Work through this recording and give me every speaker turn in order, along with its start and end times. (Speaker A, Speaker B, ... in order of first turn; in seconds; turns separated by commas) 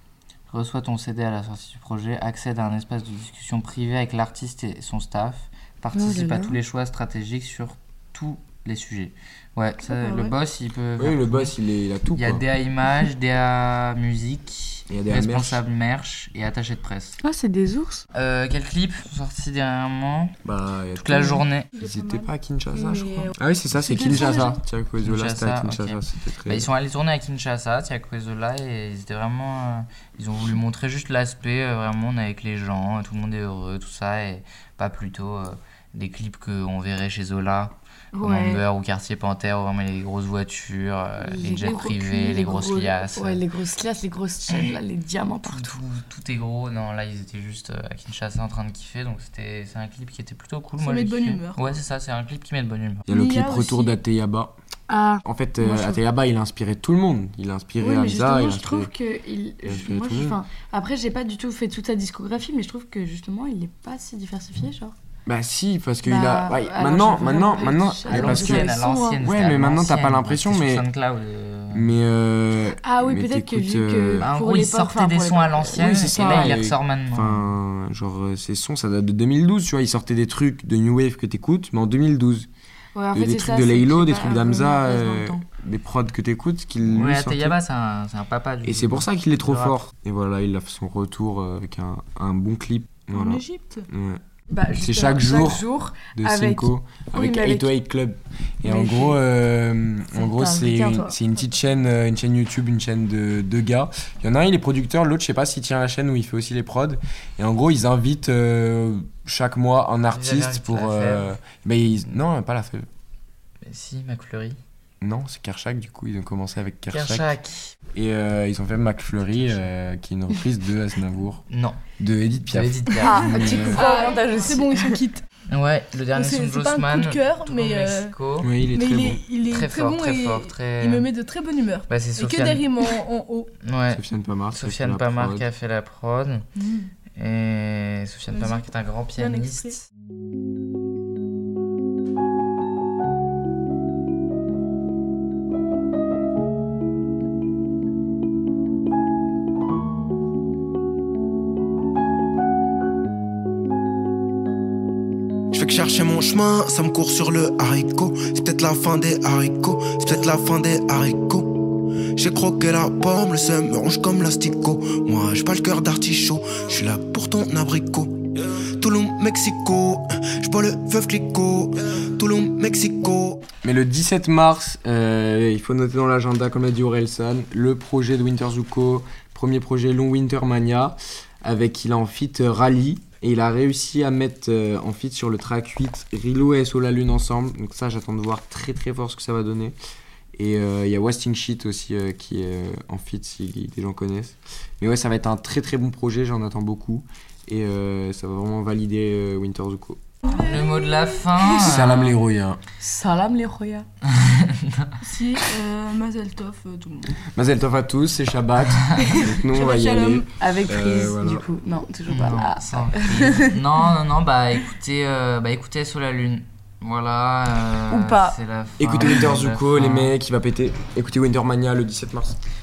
Speaker A: 0.5-11.5, Speaker B: 5.9-6.6, Speaker C: 9.9-10.3, Speaker D: 11.0-12.4, Speaker A: 12.1-17.2, Speaker D: 14.9-15.6, Speaker B: 17.2-18.0, Speaker A: 18.1-20.4, Speaker D: 20.4-26.7, Speaker A: 20.9-21.7, Speaker C: 21.8-22.3, Speaker B: 22.7-24.6, Speaker A: 25.0-43.4, Speaker B: 38.1-38.6, Speaker B: 41.2-45.8, Speaker A: 44.5-44.8, Speaker A: 45.5-53.1, Speaker C: 50.8-51.6, Speaker C: 53.1-54.0, Speaker D: 53.1-54.5, Speaker B: 54.9-56.0, Speaker D: 55.2-58.9, Speaker B: 57.8-64.9, Speaker D: 59.6-60.4, Speaker D: 65.2-68.7, Speaker B: 66.0-69.2, Speaker A: 68.1-71.9, Speaker D: 69.2-70.8, Speaker D: 71.7-74.3, Speaker B: 72.8-76.6, Speaker A: 74.2-77.5, Speaker D: 75.8-82.5, Speaker B: 82.9-85.4, Speaker D: 83.1-87.5, Speaker A: 86.8-89.8, Speaker D: 88.6-94.2, Speaker C: 93.1-93.9, Speaker B: 94.5-97.7, Speaker D: 94.7-112.8, Speaker B: 98.6-99.2, Speaker B: 100.2-101.1, Speaker A: 110.1-111.3, Speaker A: 113.6-114.6, Speaker D: 115.0-117.2, Speaker A: 116.9-117.7, Speaker D: 117.9-121.4, Speaker A: 119.3-119.6, Speaker A: 121.5-121.8, Speaker D: 122.0-123.8, Speaker A: 122.4-123.7, Speaker B: 123.0-125.0, Speaker C: 123.5-125.2, Speaker A: 125.5-128.5, Speaker C: 126.1-128.1, Speaker D: 128.4-129.2, Speaker C: 128.7-133.5, Speaker A: 129.5-131.1, Speaker A: 131.9-132.7, Speaker A: 133.6-136.5, Speaker D: 133.9-135.4, Speaker C: 136.6-136.9, Speaker A: 137.1-139.8, Speaker C: 138.3-138.7, Speaker C: 139.2-139.8, Speaker E: 155.5-173.4, Speaker D: 173.6-189.7, Speaker D: 190.3-200.0, Speaker C: 200.2-201.3, Speaker A: 200.3-202.2, Speaker D: 201.5-202.6, Speaker B: 202.8-203.9, Speaker A: 204.1-205.0, Speaker C: 205.0-207.1, Speaker D: 207.3-211.4, Speaker C: 209.2-210.3, Speaker B: 210.4-213.4, Speaker A: 212.1-220.1, Speaker B: 217.9-218.3, Speaker D: 218.8-222.4